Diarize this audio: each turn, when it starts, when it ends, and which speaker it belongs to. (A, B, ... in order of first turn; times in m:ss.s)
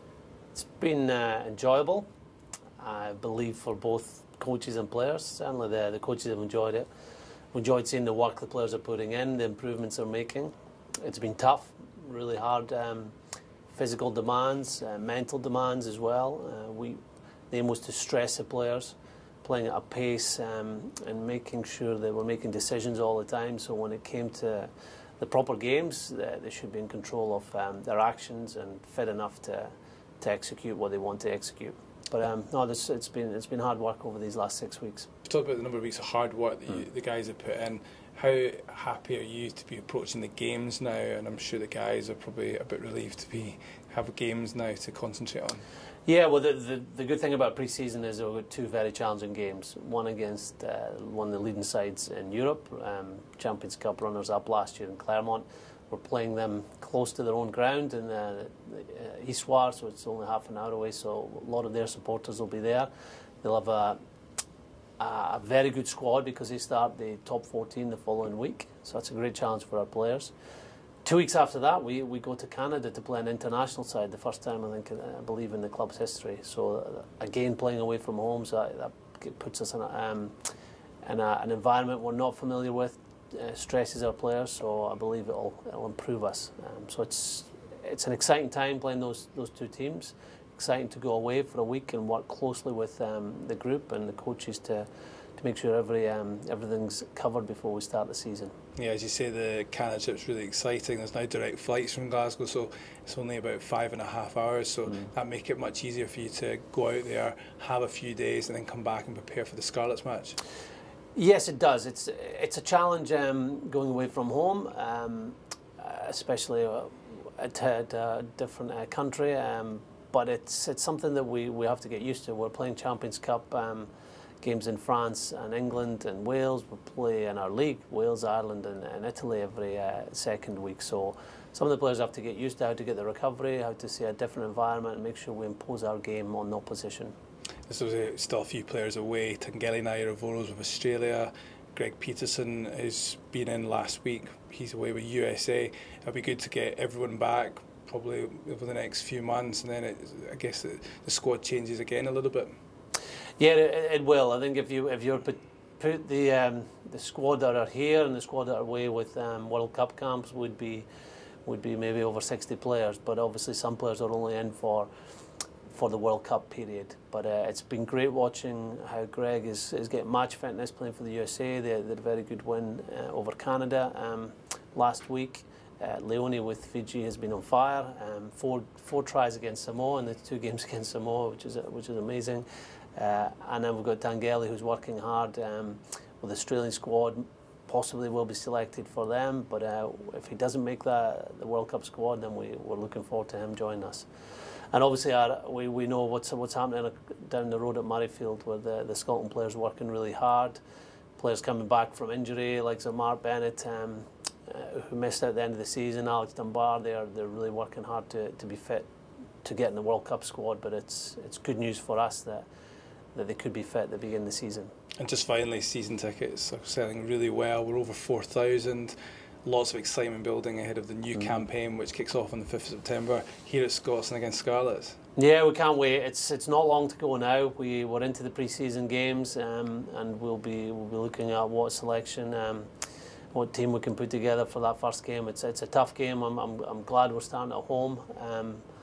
0:00.5-0:02.1 A
0:02.8-0:06.9 A
0:07.5-0:13.1 A
0:13.7-0:17.0 A
0:17.5-0:35.1 A
0:35.3-0:45.6 B
0:46.1-1:02.9 A
1:03.4-1:04.0 A
1:05.0-1:10.3 A
1:11.0-1:20.4 A
1:21.0-1:38.6 A
1:38.8-1:50.4 B
1:51.2-2:03.9 A
2:04.4-2:17.2 A
2:17.7-2:32.5 B
2:33.4-2:40.9 A
2:41.4-2:44.9 A
2:45.7-3:14.1 A
3:14.7-3:20.6 A
3:21.2-3:28.9 A
3:29.4-3:32.5 A
3:33.1-3:34.7 A
3:35.0-3:45.0 B
3:45.2-3:52.7 A
3:53.3-3:58.6 A